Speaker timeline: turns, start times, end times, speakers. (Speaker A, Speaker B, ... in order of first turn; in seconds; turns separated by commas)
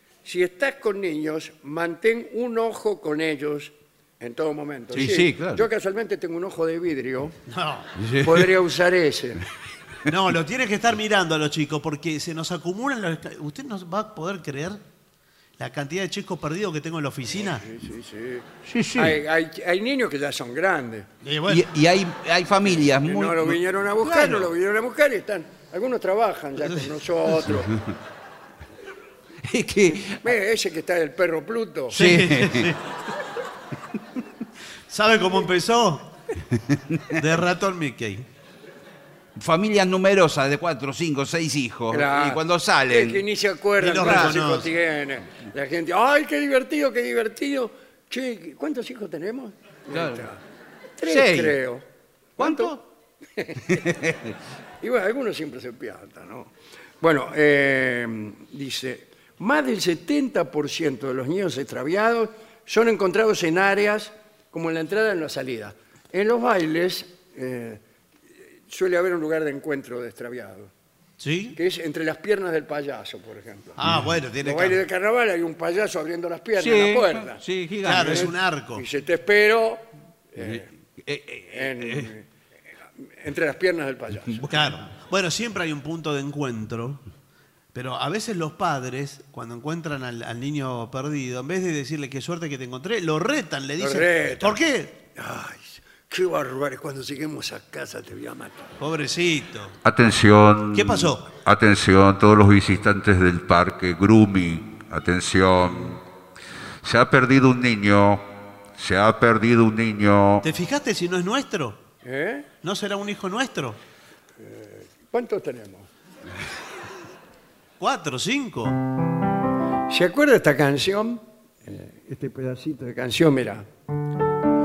Speaker A: 0.2-7.4, Speaker B: 4.9-5.6, Speaker C: 7.5-7.9, Speaker B: 8.0-8.5, Speaker A: 8.2-9.4, Speaker C: 10.1-14.8, Speaker C: 15.6-17.6, Speaker A: 17.4-21.1, Speaker B: 18.6-19.2, Speaker C: 21.2-21.6, Speaker B: 21.5-24.5, Speaker A: 23.0-27.7, Speaker B: 29.4-30.2, Speaker A: 30.1-31.9, Speaker B: 31.9-32.7, Speaker C: 31.9-33.0, Speaker C: 34.9-36.1, Speaker B: 36.7-37.2, Speaker C: 37.1-38.2, Speaker B: 39.3-43.2, Speaker A: 41.9-50.4, Speaker C: 43.8-44.7, Speaker B: 44.0-44.3, Speaker B: 49.9-50.2, Speaker A: 51.0-51.8, Speaker B: 51.0-51.6, Speaker A: 52.4-52.8, Speaker B: 52.4-52.8, Speaker A: 53.4-53.8, Speaker B: 53.7-54.3, Speaker A: 54.8-67.8, Speaker A: 68.7-70.7, Speaker C: 71.2-71.6, Speaker A: 71.5-73.8, Speaker C: 73.8-74.8, Speaker A: 74.4-77.4, Speaker B: 76.6-78.3, Speaker C: 77.8-78.8, Speaker A: 78.0-80.7, Speaker B: 80.4-82.1, Speaker A: 81.5-82.3, Speaker A: 83.0-84.5, Speaker C: 84.5-87.0, Speaker C: 87.7-95.0, Speaker A: 93.8-94.6, Speaker A: 95.2-98.7, Speaker C: 98.8-99.8, Speaker D: 99.8-106.0, Speaker C: 100.7-101.2, Speaker D: 106.8-110.5, Speaker C: 110.4-111.8, Speaker A: 112.0-112.5, Speaker C: 112.6-113.8, Speaker A: 114.4-115.9, Speaker C: 117.8-118.8, Speaker A: 119.9-123.7